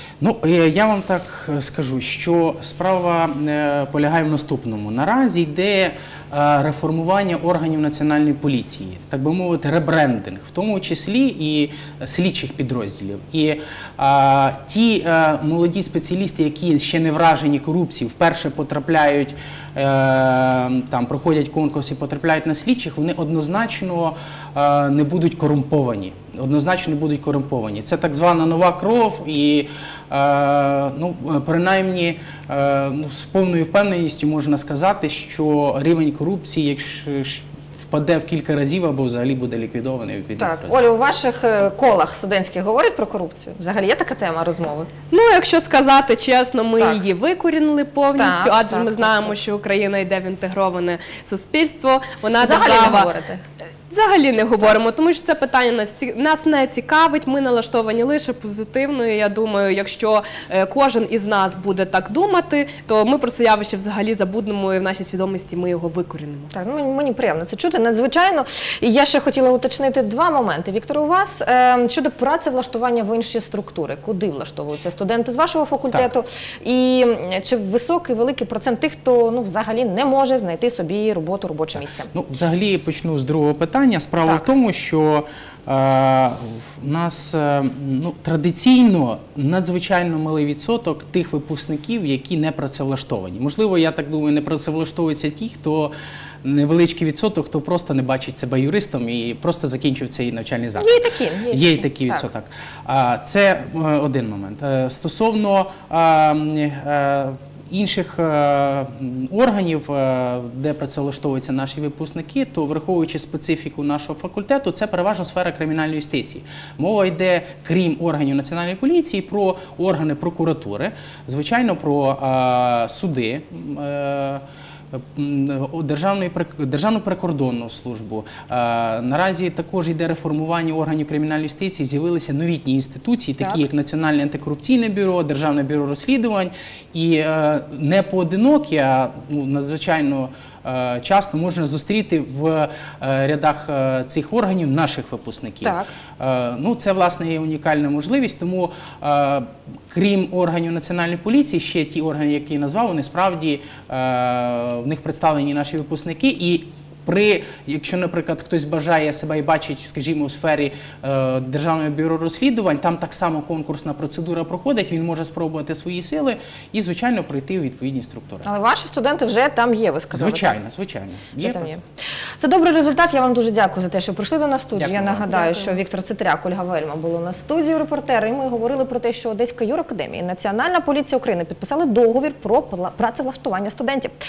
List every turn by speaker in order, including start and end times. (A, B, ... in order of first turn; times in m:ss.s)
0:00.2-0:40.9 A
0:40.4-0:44.9 B
0:45.1-0:53.1 C
0:48.2-0:49.4 B
0:52.4-0:53.4 B
0:53.9-1:06.5 C
1:06.5-1:22.1 B
1:22.1-1:41.0 A
1:40.8-1:42.3 B
1:41.5-2:48.5 A
2:25.6-2:25.9 B
2:48.4-2:50.6 B
2:50.1-2:51.8 A
2:51.4-2:51.8 B
2:52.4-3:04.1 B
2:54.8-2:55.3 A
2:55.3-2:55.8 C